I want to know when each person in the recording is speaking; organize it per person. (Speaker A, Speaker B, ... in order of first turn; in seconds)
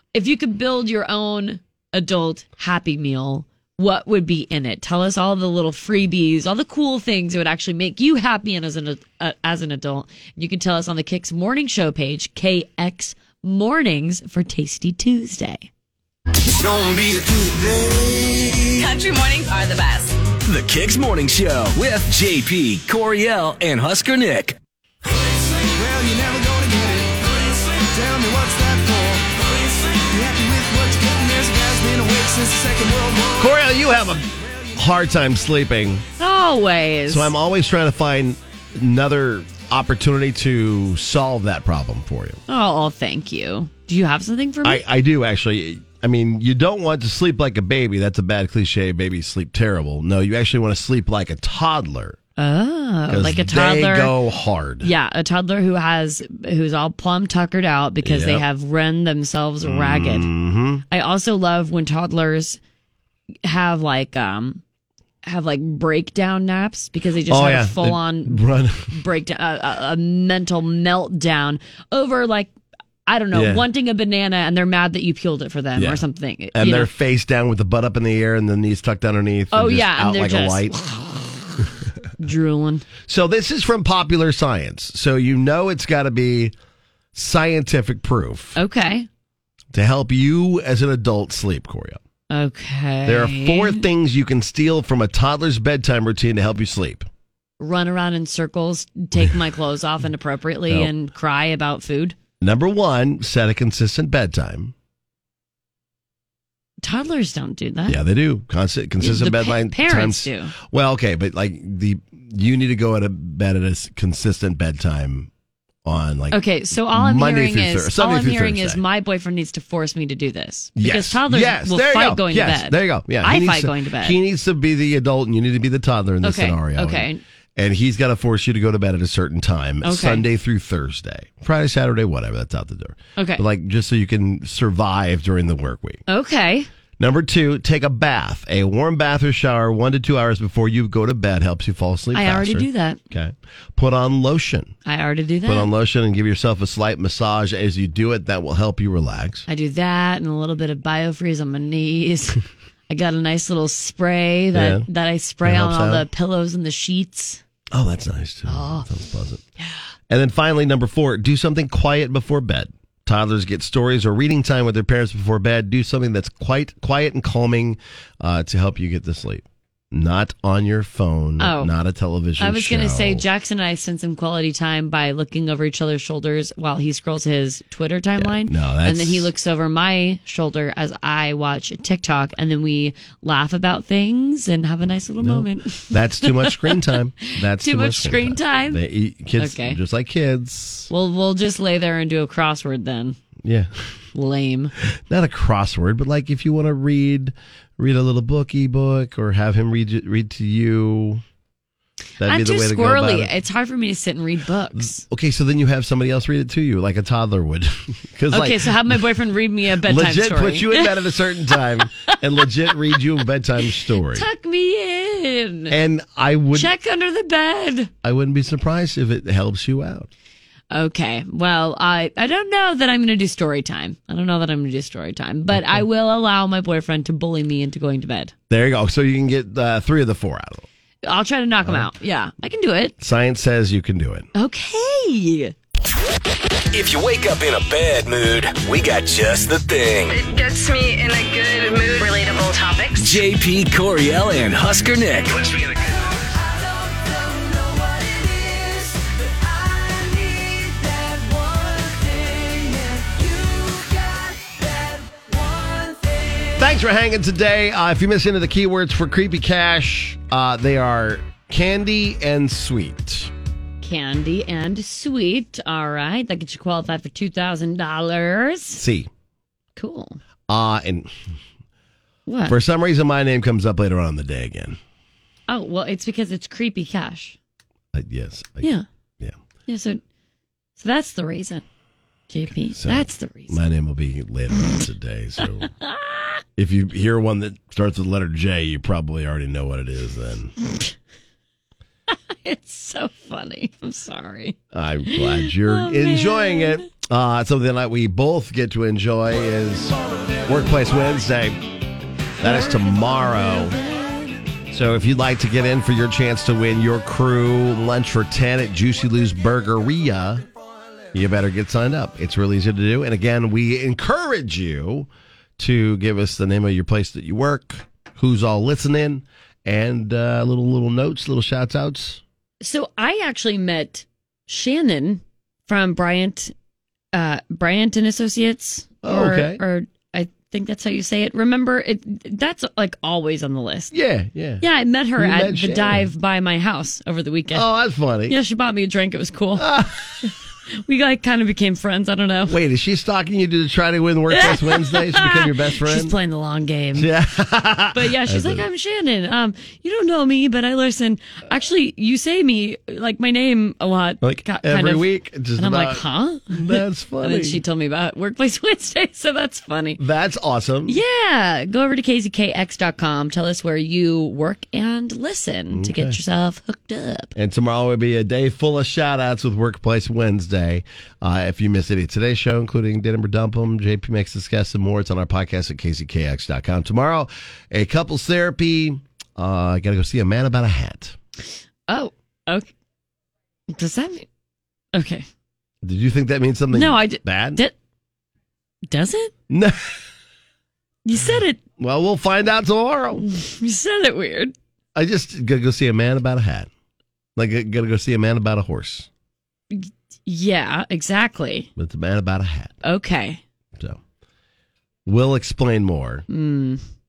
Speaker A: 0.1-15.7, 36.2-37.3, 42.5-44.8, 52.4-54.1, 54.8-60.3, 60.9-62.6, 63.4-64.6, 65.2-72.5, 73.0-76.9, 79.5-81.7, 82.2-82.8, 88.5-89.1, 92.3-93.8, 97.6-102.2, 106.8-108.0, 109.0-110.5, 116.3-124.2, 126.2-127.2, 129.8-130.2, 133.2-133.4, 136.1-136.7, 142.1-143.0, 144.8-145.7, 149.5-157.4, 158.5-158.9, 159.6-159.9, 171.4-171.7, 172.4-188.8, 189.3-189.8, 190.9-193.2, 194.1-194.7, 202.2-205.1, 208.3-210.9, 212.7-213.0, 214.0-215.8, 216.5-217.9, 220.7-228.3, 231.1-232.9, 234.3-235.5, 263.8-268.8, 269.8-270.2, 272.3-272.6, 275.5-277.4, 279.7-280.0, 280.8-281.6, 282.3-283.6, 285.8-286.4, 292.1-294.6, 295.1-296.8, 302.4-304.1, 322.6-326.5, 327.1-333.9, 334.6-337.7, 338.3-339.7, 340.9-342.6, 344.3-347.1, 347.9-360.0, 360.9-367.3, 381.9-382.7, 383.7-384.2, 384.9-385.2, 386.7-387.7, 388.9-389.3, 391.0-391.6, 393.2-394.5, 399.7-401.7, 402.8-403.4, 406.3-406.8
Speaker B: 16.5-18.6, 25.4-33.4
Speaker C: 18.7-20.1, 240.1-243.2
Speaker D: 20.4-24.6, 236.7-240.2, 243.0-245.8
Speaker E: 33.4-36.0, 37.1-42.4, 44.6-52.2, 53.1-54.9, 58.0-58.4, 59.6-60.8, 67.3-69.0, 73.3-73.6, 75.7-80.7, 83.0-86.5, 87.1-88.5, 89.7-92.0, 93.0-97.1, 102.4-104.7, 107.9-115.3, 115.8-118.8, 120.8-136.0, 137.0-144.7, 145.4-149.4, 154.5-154.9, 155.4-156.1, 157.7-159.4, 160.1-173.2, 178.2-179.3, 185.2-190.9, 193.4-193.9, 195.1-201.2, 202.2-203.3, 204.8-209.0, 209.8-214.3, 215.7-216.7, 218.0-220.1, 225.5-225.8, 228.5-230.6, 233.0-234.3, 256.6-263.3, 268.7-269.1, 270.5-271.1, 272.5-274.8, 277.9-279.4, 282.7-285.7, 286.6-290.5, 294.7-301.6, 302.4-303.8, 304.7-310.4, 311.1-322.2, 329.0-329.6, 333.9-334.6, 335.2-336.1, 337.5-338.4, 339.6-340.3, 342.5-346.1, 346.9-348.6, 354.2-357.6, 360.0-361.0, 365.7-366.2, 367.4-381.1, 385.8-387.6, 389.5-389.8, 391.8-393.2, 394.9-396.7, 397.4-399.1, 401.8-402.7, 403.7-404.0, 405.1-406.2